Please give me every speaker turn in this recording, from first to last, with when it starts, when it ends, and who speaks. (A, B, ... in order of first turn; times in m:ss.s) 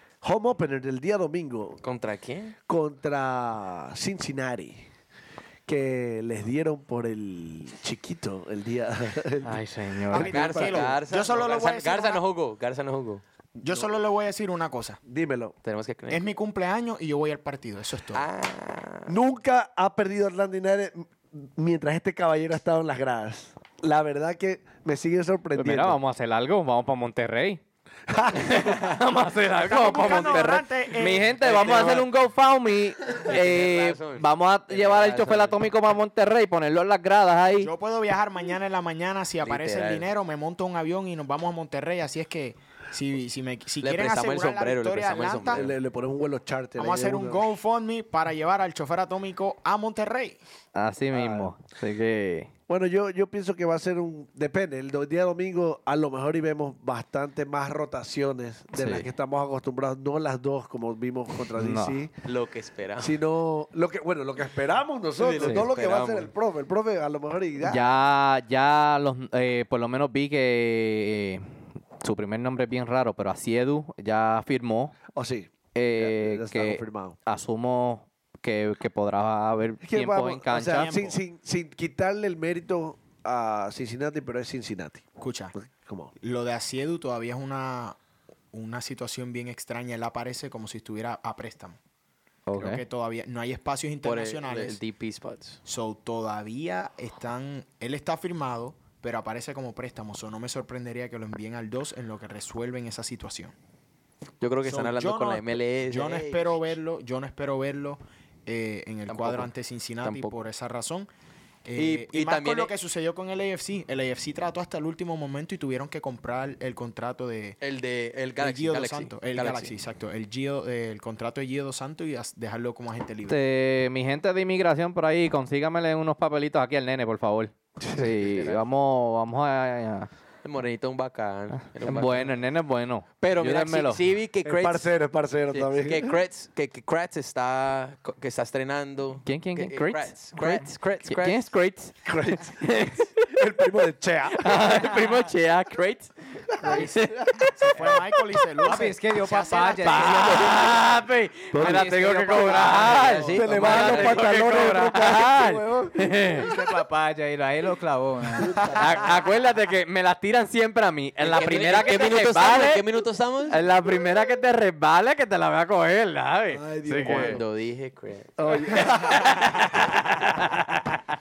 0:00.2-0:01.8 A
0:01.8-0:02.5 B
0:02.7-0:04.9 A
0:05.6-0:10.9 A
0:09.4-0:10.3 C
0:10.1-0:12.2 D
0:10.1-0:13.2 B
0:13.6-0:15.0 D
0:13.6-0:13.9 A
0:15.0-0:15.5 A
0:15.6-0:16.3 B
0:16.1-0:18.2 D
0:18.1-0:19.1 B
0:19.1-0:26.0 A
0:25.6-0:27.6 C
0:28.1-0:28.8 A
0:28.3-0:37.7 C
0:29.6-0:32.0 D
0:29.8-0:30.5 B
0:31.6-0:32.0 B
0:33.2-0:35.6 B
0:37.6-0:45.6 D
0:39.4-0:40.1 B
0:43.8-0:45.7 B
0:45.5-0:47.4 A
0:46.8-0:50.4 D
0:50.7-0:52.5 C
0:51.1-0:51.5 A
0:52.7-1:02.1 A
0:58.7-0:59.1 C
1:01.6-1:02.0 C
1:02.2-1:03.2 B
1:03.0-1:07.9 A
1:05.2-1:06.3 B
1:05.4-1:05.7 C
1:07.6-1:11.5 C
1:12.0-1:15.0 C
1:15.1-1:17.2 A
1:15.7-1:20.9 C
1:19.8-1:25.0 A
1:20.7-1:21.2 D
1:25.2-1:25.5 D
1:25.5-1:26.1 A
1:26.2-1:28.0 D
1:28.5-1:31.8 D
1:32.5-1:32.8 C
1:32.5-1:34.8 D
1:34.0-1:35.6 B
1:35.6-1:43.5 D
1:44.4-1:46.6 B
1:44.6-1:51.1 D
1:49.1-1:49.5 B
1:50.0-1:50.3 B
1:51.6-1:57.6 D
1:51.8-1:52.7 B
1:57.6-1:59.7 B
1:58.4-2:03.4 D
2:03.3-2:10.1 C
2:08.0-2:08.6 B
2:10.4-2:12.3 B
2:11.6-2:14.0 C
2:13.2-2:14.9 B
2:14.4-2:16.2 A
2:15.5-2:21.4 B
2:19.2-2:23.2 C
2:22.0-2:22.6 A
2:23.2-2:24.7 A
2:24.4-2:28.0 C
2:26.6-2:27.5 A
2:26.7-2:27.0 D
2:27.5-2:30.6 D
2:28.6-2:30.7 E
2:29.7-2:36.5 C
2:31.5-2:31.9 A
2:31.6-2:33.7 E
2:32.5-2:34.7 B
2:33.3-2:36.7 A
2:36.4-2:38.6 E
2:38.4-2:39.2 A
2:38.8-2:42.8 C
2:41.2-2:43.6 B
2:43.5-2:47.4 C
2:46.5-2:47.4 A
2:47.0-2:49.2 B
2:48.4-2:49.6 A
2:48.8-2:51.0 C